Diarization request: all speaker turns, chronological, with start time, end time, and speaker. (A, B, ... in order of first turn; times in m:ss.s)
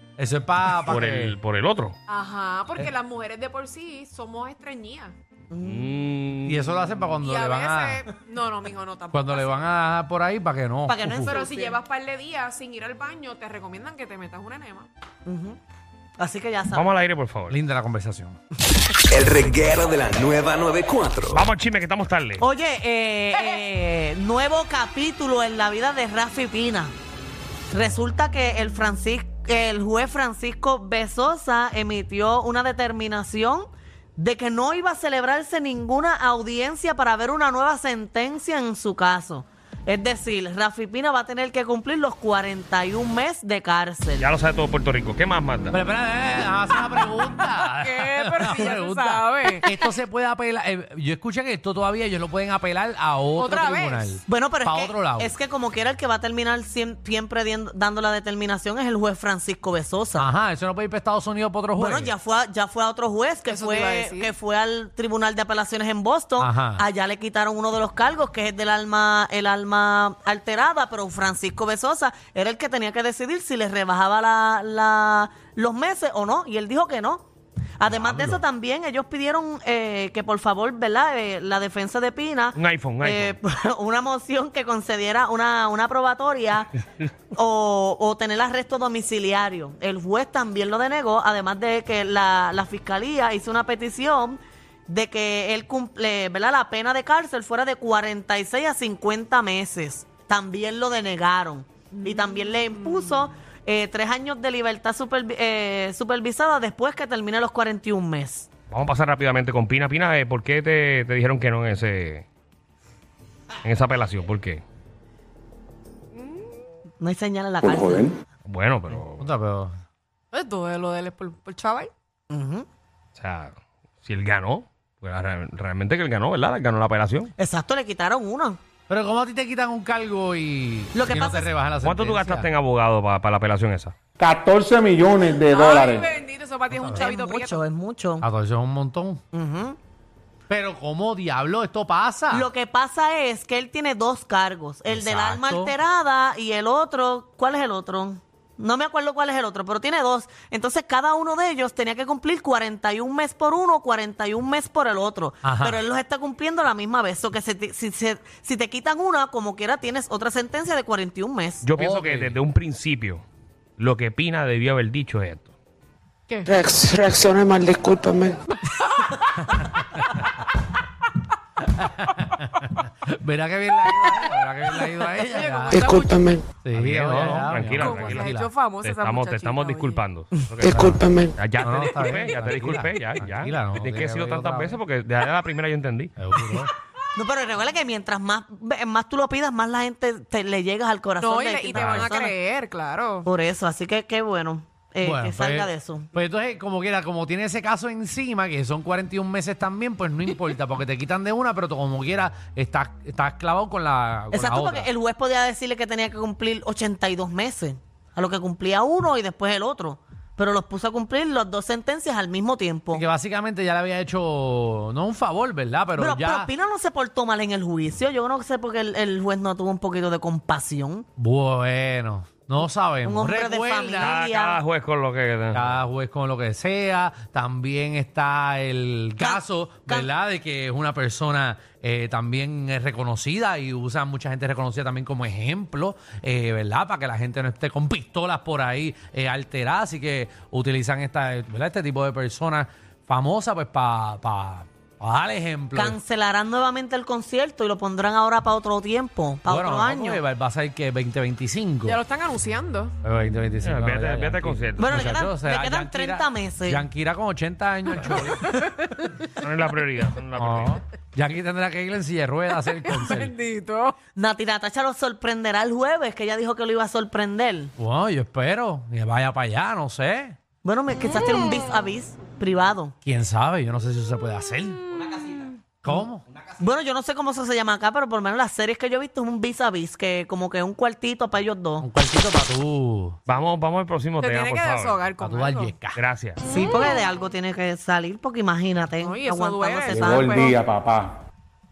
0:00.2-0:01.4 A
0:00.8-0:02.0 B
0:02.1-0:05.1 C
0:05.5-0:05.9 D
0:05.6-0:06.9 B
0:06.4-0:08.0 A
0:07.2-0:09.7 C
0:09.1-0:11.4 A
0:10.8-0:11.8 D
0:11.2-0:14.9 C
0:15.2-0:15.6 D
0:16.2-0:16.9 D
0:16.7-0:17.6 B
0:17.5-0:18.4 A
0:19.1-0:21.4 E
0:21.3-0:22.4 B
0:22.4-0:26.9 D
0:27.7-0:44.3 D
0:44.2-0:45.8 B
0:45.7-0:55.3 A
0:47.2-0:49.7 C
0:53.4-0:54.2 C
0:54.2-1:00.3 D
1:00.2-1:02.1 A
1:01.8-1:17.2 D
1:03.5-1:04.3 C
1:06.4-1:06.8 A
1:17.8-1:26.7 D
1:17.9-1:18.4 A
1:22.5-1:23.4 B
1:27.3-1:48.5 D
1:42.0-1:43.2 C
1:48.7-1:52.2 B
1:53.6-1:54.6 B
1:57.0-1:58.1 D
1:57.7-1:58.0 F
1:58.4-1:59.2 B
1:59.2-1:59.8 A
2:00.3-2:01.9 C
2:02.3-2:02.6 D
2:03.2-2:07.3 B
2:07.4-2:08.6 D
2:08.9-2:12.5 A
2:10.9-2:11.5 D
2:11.8-2:13.9 B
2:14.2-2:16.0 G
2:15.2-2:17.6 C
2:15.5-2:15.8 F
2:16.7-2:17.1 A
2:16.9-2:18.2 D
2:18.2-2:19.2 A
2:19.3-2:19.8 D
2:20.5-2:22.5 A
2:22.3-2:41.6 D
2:24.9-2:25.8 A
2:35.4-2:35.8 A
2:41.6-2:43.2 B
2:41.8-2:42.4 A
2:43.8-2:45.5 B
2:46.3-2:46.6 C
2:46.5-2:48.4 F
2:48.7-2:49.3 C
2:49.4-2:50.1 A
2:51.6-2:56.0 A
2:55.2-2:56.4 C
2:55.7-2:56.4 F
2:56.6-2:58.5 A
2:56.7-3:06.1 B
2:57.7-3:00.0 C
3:00.6-3:04.8 A
3:00.7-3:01.3 F
3:06.2-3:06.7 A
3:07.1-3:12.4 D
3:11.2-3:13.3 C
3:11.7-3:12.1 A
3:13.2-3:16.1 D
3:15.0-3:24.9 A
3:24.3-3:33.0 D
3:32.9-3:36.5 A
3:36.0-3:41.0 D
3:41.2-3:44.2 A
3:43.0-3:44.6 D
3:44.0-3:45.8 B
3:45.5-4:06.0 A
3:49.2-3:50.1 D
4:05.7-4:10.2 D
4:09.4-4:12.0 A
4:11.8-4:12.9 C
4:13.0-4:18.5 A
4:13.6-4:15.1 B
4:14.8-4:16.9 D
4:18.0-4:19.2 C
4:19.4-4:20.8 B
4:20.4-4:23.3 A
4:22.8-4:24.0 C
4:24.2-4:27.7 D
4:27.8-4:30.4 A
4:30.6-4:32.9 D
4:33.0-4:34.8 A
4:35.8-4:36.2 A
4:36.6-4:41.9 D
4:41.8-4:43.2 A
4:43.3-4:45.0 B
4:44.2-4:45.8 C
4:45.2-4:46.0 A
4:45.9-4:46.4 B
4:46.4-4:50.6 D
4:46.5-4:46.8 C
4:49.0-4:50.6 C
4:50.0-4:51.0 F
4:50.4-4:51.1 G